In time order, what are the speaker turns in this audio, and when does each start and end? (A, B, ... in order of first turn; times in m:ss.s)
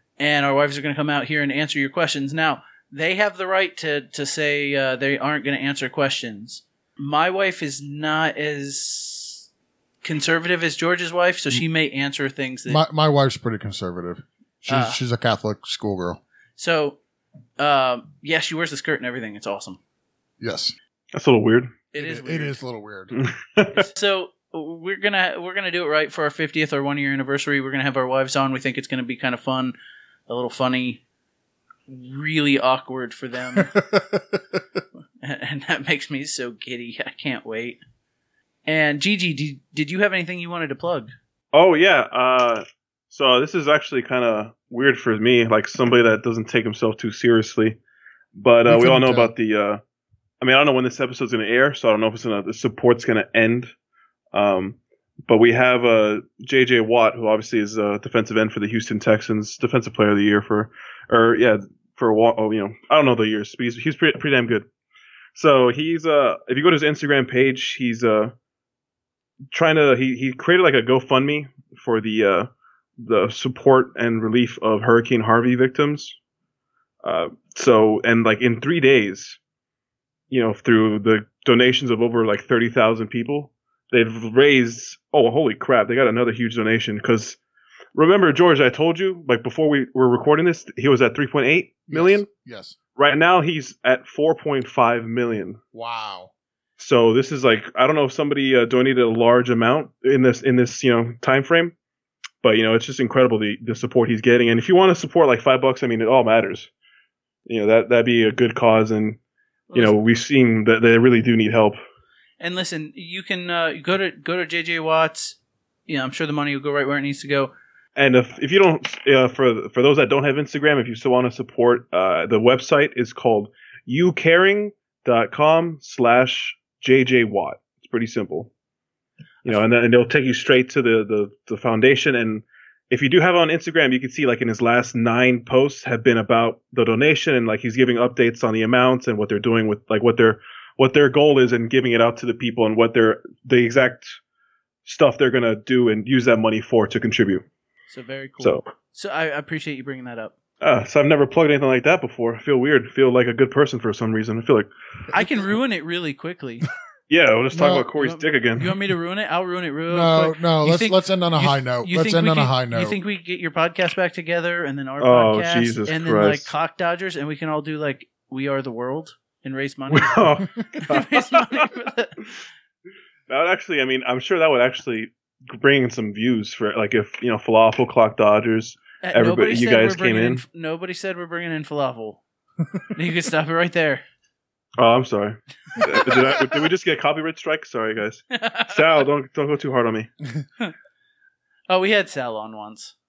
0:00.2-0:09.5 A
0:10.0-0:12.8 A
0:12.7-0:16.2 B
0:14.7-0:15.0 A
0:16.6-0:17.0 A
0:17.6-0:19.8 A
0:20.4-0:20.8 B
0:21.1-0:21.7 C
0:21.9-0:22.6 A
0:22.0-0:23.2 B
0:23.1-0:23.8 C
0:23.7-0:29.7 A
0:30.3-0:31.0 A
0:31.9-0:33.8 A
0:33.6-0:34.6 B
0:35.2-0:37.8 A
0:38.7-0:41.1 A
0:41.5-0:47.8 C
0:48.4-0:49.8 C
0:48.7-0:49.3 B
0:50.4-0:53.7 C
0:54.3-1:04.7 C
1:05.4-1:08.3 C
1:09.5-1:16.2 C
1:17.0-1:19.4 C
1:20.3-1:27.4 C
1:28.0-1:32.3 C
1:31.9-1:32.8 B
1:33.0-1:35.6 C
1:35.7-1:36.3 B
1:36.8-1:41.7 C
1:42.4-1:46.7 C
1:47.5-1:49.2 C
1:49.7-1:50.0 A
1:49.7-1:51.8 C
1:52.4-1:57.5 A
1:58.0-2:08.5 C
2:09.4-2:24.2 C
2:24.8-2:27.4 C
2:27.9-2:30.4 A
2:30.6-2:34.7 C
2:35.1-2:35.5 B
2:35.1-2:36.7 A
2:37.1-2:38.8 C
2:37.5-2:37.9 B
2:38.0-2:52.2 A
2:39.9-2:43.0 B
2:45.0-2:46.5 C
2:49.9-2:51.7 C
2:53.3-3:00.4 C
2:59.0-3:02.2 A
3:02.9-3:04.0 A
3:04.8-3:10.1 C
3:08.3-3:08.8 A
3:11.7-3:13.0 A